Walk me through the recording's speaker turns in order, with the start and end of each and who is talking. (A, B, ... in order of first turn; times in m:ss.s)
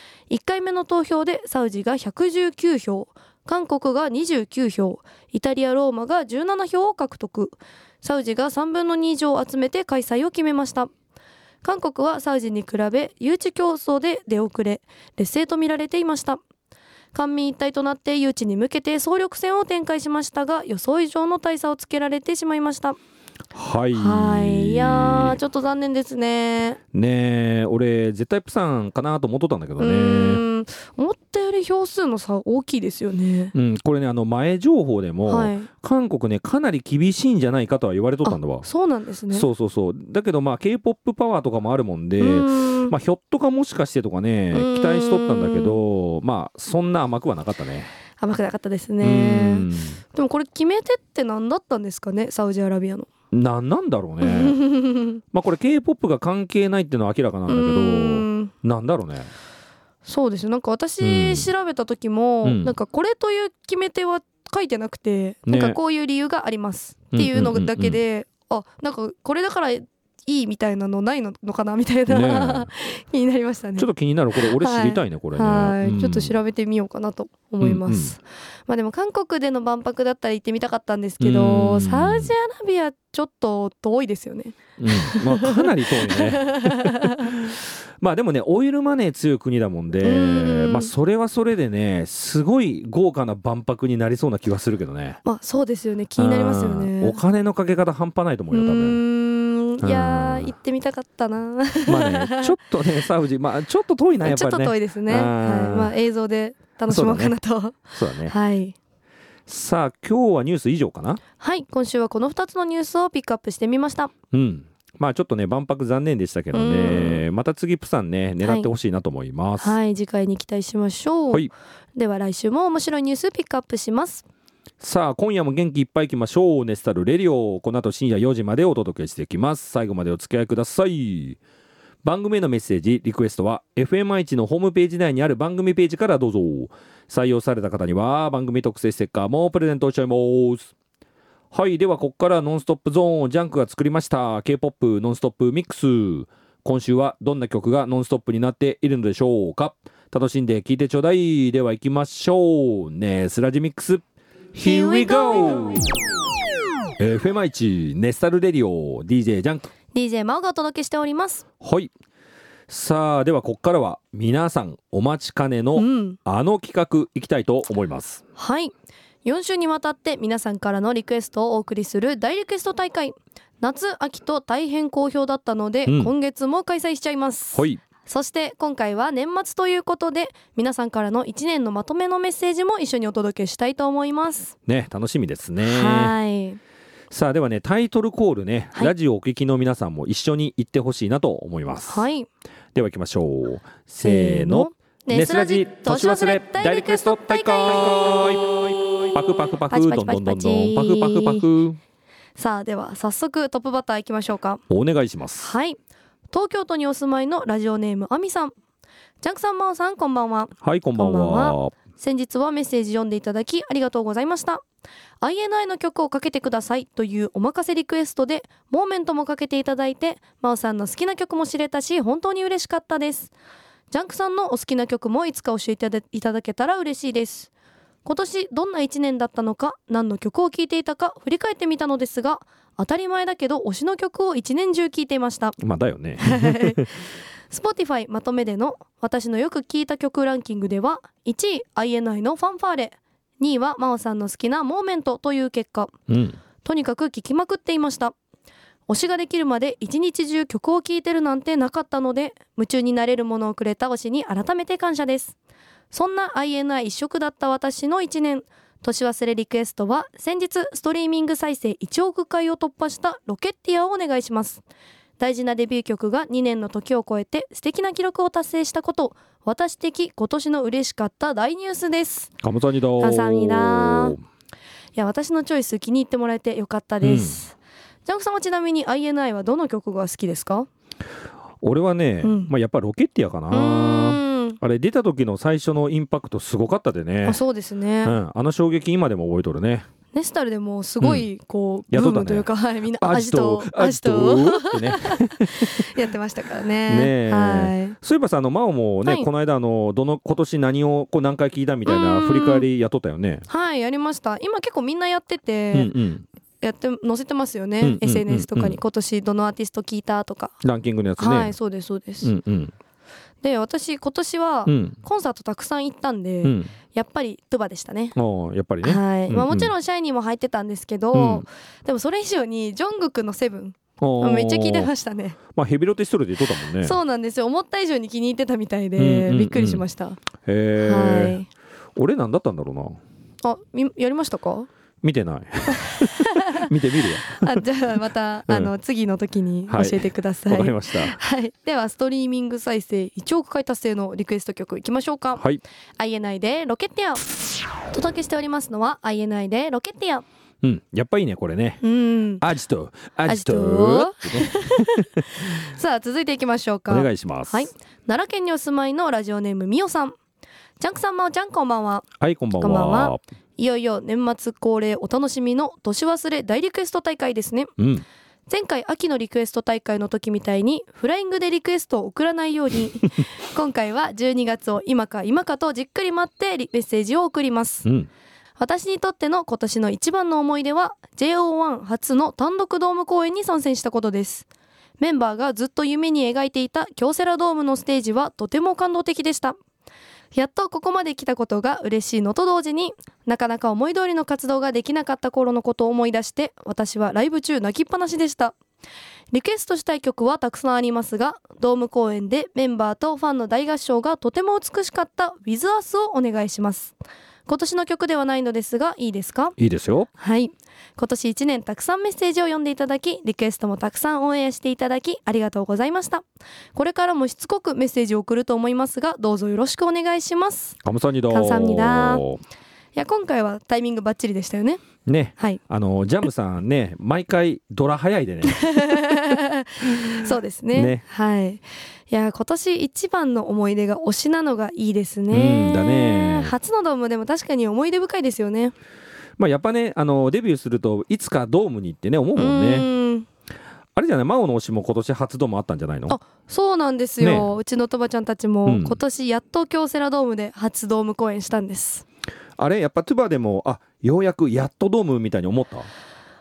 0:00.3-0:10.9 A
0:11.6-0:16.4 A
0:17.1-0:23.0 A
0:23.5-0:25.4 B
0:23.9-0:26.8 A
0:26.9-0:30.4 B
0:29.8-0:33.5 A
0:33.5-0:38.7 B
0:35.2-0:35.7 A
0:38.2-0:39.5 A
0:39.3-0:47.9 B
0:42.2-0:42.9 A
0:44.5-0:45.8 A
0:48.2-0:53.1 A
0:49.0-0:50.0 B
0:53.3-0:54.6 B
0:54.2-0:55.2 A
0:55.3-0:59.3 B
0:57.5-0:58.5 A
1:00.0-1:27.5 A
1:01.0-1:01.5 B
1:02.4-1:02.7 B
1:05.5-1:05.8 B
1:07.1-1:08.0 B
1:12.1-1:12.7 B
1:13.8-1:16.4 B
1:17.6-1:18.2 B
1:21.2-1:22.3 B
1:24.8-1:35.2 B
1:30.0-1:30.9 A
1:35.2-1:37.2 A
1:36.2-1:39.0 B
1:38.5-1:42.6 A
1:39.8-1:40.5 B
1:41.8-1:45.9 B
1:44.2-1:48.7 A
1:46.9-1:47.4 B
1:47.9-1:48.3 B
1:49.5-1:51.2 B
1:51.4-1:54.1 A
1:54.3-1:59.8 B
1:56.5-1:57.2 A
1:58.4-1:58.7 A
1:59.6-2:04.2 A
2:04.8-2:11.4 B
2:12.0-2:20.7 B
2:21.5-2:34.0 B
2:34.5-2:35.9 B
2:34.6-2:35.8 A
2:37.0-2:39.7 B
2:39.9-2:41.4 A
2:41.6-2:41.9 B
2:42.7-2:48.2 B
2:45.7-2:46.2 A
2:48.3-2:48.7 A
2:49.2-3:04.5 A
2:55.8-2:56.1 B
2:57.5-2:57.8 B
3:04.7-3:06.2 B
3:05.6-3:06.6 A
3:07.1-3:12.0 B
3:11.8-3:12.3 A
3:12.7-3:21.8 B
3:14.0-3:19.1 A
3:19.7-3:21.4 A
3:22.4-3:24.6 A
3:24.7-3:25.6 B
3:25.4-3:25.8 A
3:26.3-3:28.5 A
3:29.2-3:34.6 A
3:30.6-3:31.7 B
3:35.2-3:43.3 A
3:43.9-3:47.5 A
3:48.0-3:55.6 A
3:55.6-3:56.9 B
3:56.2-3:56.8 A
3:57.5-4:05.9 A
4:06.1-4:06.4 B
4:06.6-4:08.1 A
4:08.9-4:15.4 A
4:15.9-4:24.6 A
4:25.2-4:32.3 A
4:32.4-4:34.2 B
4:33.0-4:34.2 A
4:34.9-4:40.7 A
4:37.0-4:37.4 B
4:41.6-4:47.4 B
4:42.2-4:42.5 A
4:43.5-4:44.6 A
4:47.2-4:48.2 A
4:48.0-4:49.9 B
4:50.1-4:58.0 A
4:51.0-4:51.3 B
4:51.9-4:55.9 B
4:56.8-5:03.4 B
5:01.8-5:02.6 A
5:03.5-5:05.9 A
5:05.7-5:06.2 B
5:06.6-5:10.6 A
5:07.8-5:08.8 B
5:10.6-5:11.5 B
5:11.2-5:12.3 A
5:12.2-5:12.7 B
5:13.4-5:18.1 A
5:14.6-5:15.0 B
5:16.4-5:16.7 B
5:18.1-5:19.7 B
5:18.8-5:25.4 A
5:21.1-5:21.4 B
5:24.0-5:24.9 B
5:25.5-5:27.0 B
5:26.8-5:30.2 A
5:29.0-5:29.8 B
5:30.4-5:31.4 B
5:30.8-5:31.5 A
5:32.0-5:33.0 B
5:33.4-5:34.7 A
5:35.0-5:37.6 B
5:35.8-5:36.6 A
5:37.3-5:45.4 A
5:38.5-5:38.7 B
5:39.7-5:41.2 B
5:45.4-5:45.6 B
5:46.0-5:50.2 A
5:50.6-5:51.8 B
5:51.8-5:52.4 A
5:52.4-5:55.1 B
5:53.3-6:00.2 A
5:56.9-5:57.7 B
6:00.8-6:07.7 A
6:02.2-6:03.2 B
6:07.8-6:08.0 B
6:08.5-6:17.9 A
6:18.6-6:24.4 A
6:25.0-6:29.6 A
6:30.3-6:38.5 A
6:39.3-6:46.9 A
6:47.5-6:49.5 A
6:49.6-6:50.1 B
6:50.2-7:02.2 A
7:00.8-7:02.4 B
7:02.9-7:04.8 A
7:05.0-7:09.2 B
7:08.4-7:18.7 A
7:10.7-7:11.0 B
7:15.3-7:16.5 B
7:19.4-7:22.9 B
7:22.4-7:23.3 A
7:24.0-7:26.2 B
7:26.1-7:32.0 A
7:27.2-7:27.5 B
7:28.6-7:29.0 B
7:32.6-7:35.9 B